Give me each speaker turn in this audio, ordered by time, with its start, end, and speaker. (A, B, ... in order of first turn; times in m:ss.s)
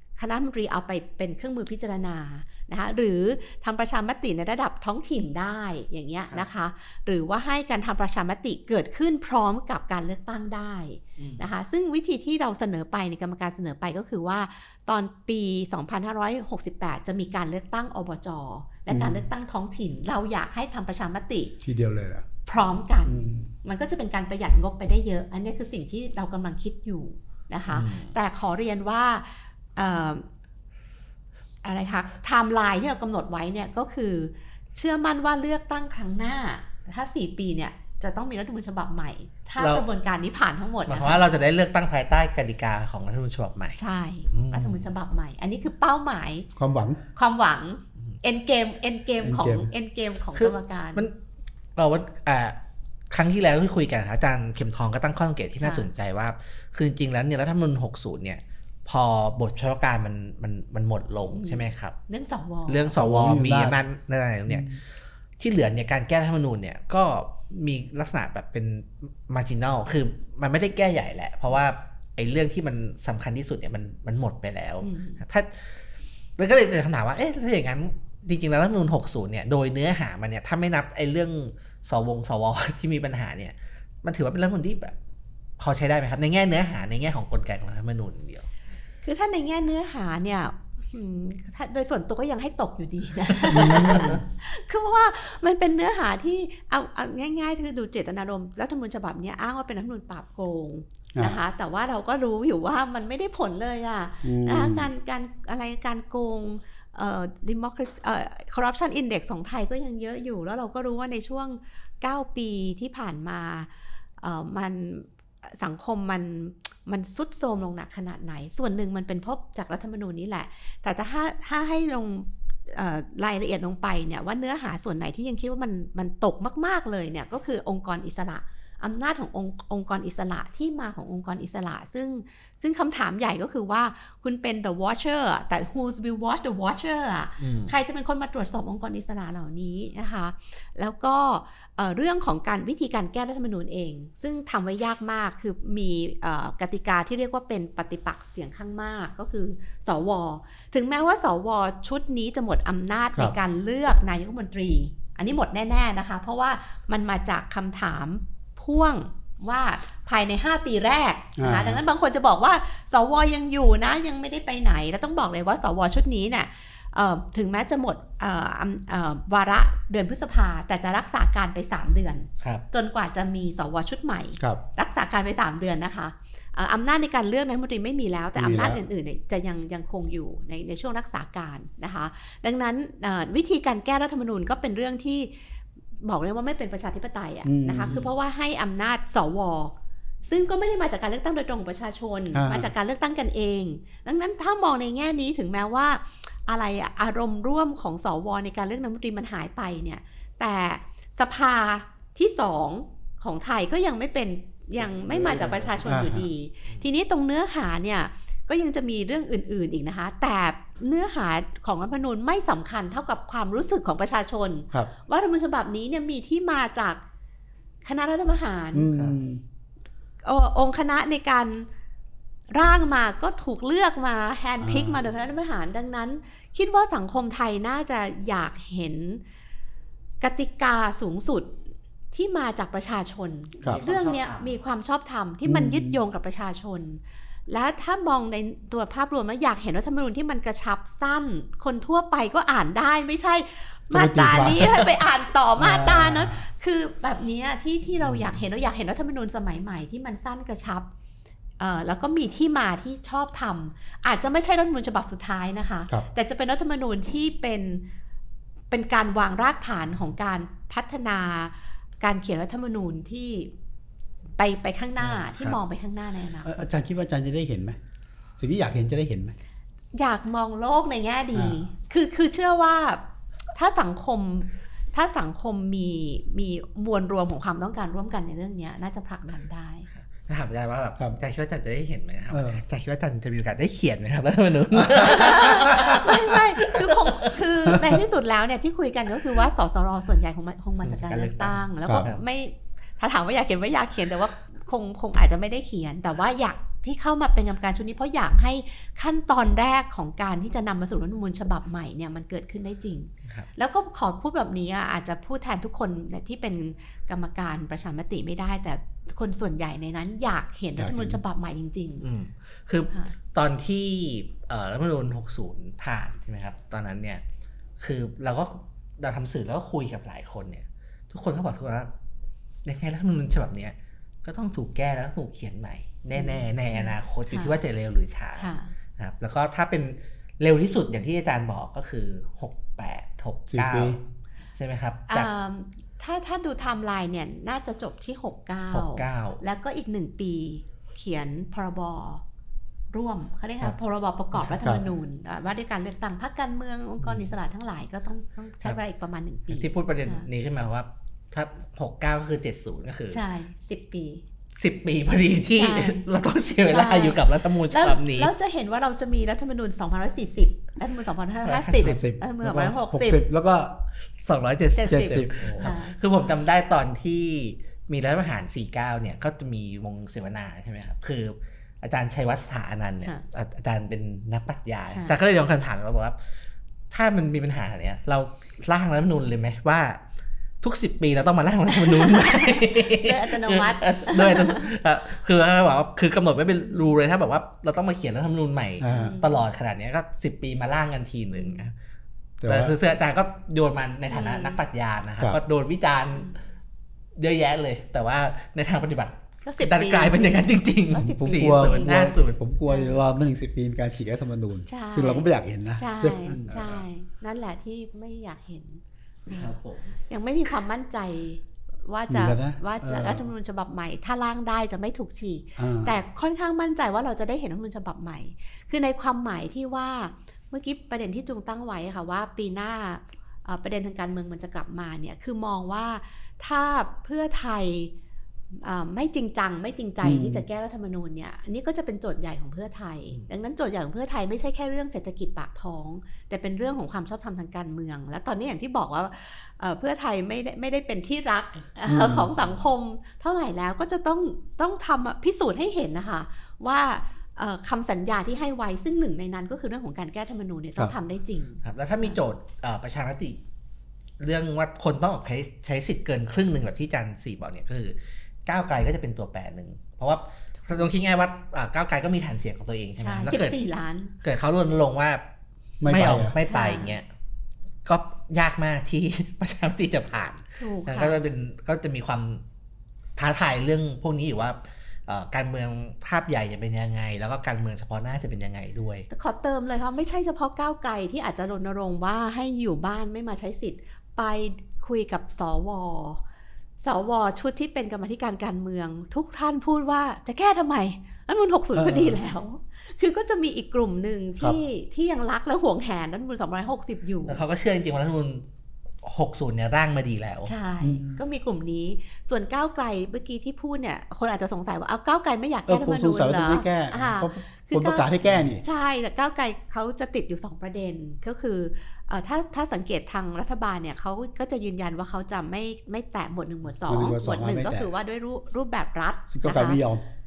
0:00.2-0:21.6 A
0:11.2-0:11.5 B
0:18.9-0:19.2 C
0:21.6-0:22.3 C
0:22.5-0:30.3 A
0:23.1-0:23.5 C
0:27.7-0:28.2 B
0:31.6-0:41.2 A
0:39.6-0:39.9 B
0:40.9-0:43.8 B
0:43.8-0:46.5 A
0:44.3-0:44.9 B
0:46.6-0:47.0 C
0:47.2-0:51.1 A
0:49.2-0:49.7 C
0:50.4-0:51.2 B
0:51.8-0:52.6 B
0:53.1-1:02.0 B
0:55.6-0:55.9 A
1:01.3-1:03.2 A
1:02.7-1:04.7 B
1:03.0-1:03.8 C
1:04.5-1:04.8 C
1:05.4-1:15.8 B
1:14.8-1:15.2 A
1:16.4-1:25.0 B
1:25.6-1:28.5 B
1:29.0-3:09.7 A
1:33.5-1:34.2 C
1:33.7-1:34.2 B
1:41.1-1:41.4 C
1:44.2-1:44.9 C
2:17.4-2:17.7 B
2:41.4-2:41.8 C
2:58.4-2:58.8 C
3:07.4-3:08.0 C
3:10.3-3:37.0 A
3:12.3-3:12.7 C
3:24.8-3:26.0 B
3:25.8-3:26.3 C
3:37.8-3:38.9 A
3:38.7-3:39.4 C
3:40.2-3:41.7 A
3:42.5-3:49.2 A
3:44.6-3:45.0 C
3:50.2-3:51.6 A
3:52.1-4:10.9 A
3:53.6-3:54.5 B
3:55.5-3:56.0 C
4:03.9-4:04.9 C
4:05.6-4:06.5 C
4:11.6-4:17.9 A
4:18.7-4:23.5 A
4:24.4-4:26.6 A
4:26.4-4:27.8 C
4:28.4-4:29.4 C
4:30.0-4:39.9 A
4:31.3-4:31.6 C
4:40.2-4:47.4 B
4:42.3-4:42.6 C
4:44.8-4:45.1 C
4:45.0-5:12.1 A
4:47.7-4:48.0 C
4:50.8-4:52.2 B
5:10.8-5:11.2 C
5:12.0-5:17.2 B
5:17.8-5:21.9 B
5:22.6-5:35.3 B
5:26.2-5:27.6 A
5:28.4-5:28.7 A
5:33.5-5:34.0 C
5:35.1-5:42.2 A
5:38.7-5:39.4 B
5:42.9-5:50.3 A
5:44.5-5:44.8 C
5:47.0-5:47.3 B
5:49.5-5:53.2 B
5:53.1-5:54.2 A
5:54.6-5:58.3 B
5:55.6-5:56.0 A
5:56.7-6:03.2 A
6:01.4-6:02.0 B
6:01.8-6:03.8 C
6:04.2-6:16.3 B
6:04.7-6:06.0 A
6:04.9-6:05.7 C
6:16.9-6:20.0 B
6:20.6-6:31.7 B
6:21.7-6:24.7 A
6:28.8-6:29.2 C
6:28.9-6:29.4 A
6:32.4-6:32.8 C
6:32.5-6:36.4 B
6:34.1-6:34.6 A
6:37.2-6:42.4 B
6:39.4-6:42.0 A
6:41.0-6:46.4 C
6:42.7-6:43.0 A
6:44.7-6:49.5 A
6:46.3-6:46.8 B
6:49.3-6:50.0 B
6:50.1-7:07.9 A
6:52.1-6:53.3 C
6:55.6-6:56.0 C
7:08.5-7:32.2 A
7:10.0-7:10.4 C
7:21.9-7:22.3 C
7:31.6-7:33.4 B
7:34.2-7:43.6 B
7:43.0-7:44.1 A
7:44.2-7:45.2 B
7:45.8-7:46.4 C
7:45.8-7:47.1 B
7:46.5-7:47.0 A
7:47.8-7:52.4 B
7:50.6-7:51.2 A
7:53.2-7:59.1 B
7:59.1-8:06.2 A
8:06.8-8:17.4 A
8:11.7-8:12.2 C
8:17.3-8:18.4 B
8:19.0-8:20.5 B
8:20.5-8:28.1 A
8:20.8-8:21.2 C
8:25.7-8:28.6 C
8:28.6-8:39.8 A
8:36.9-8:37.9 C
8:39.3-8:40.0 C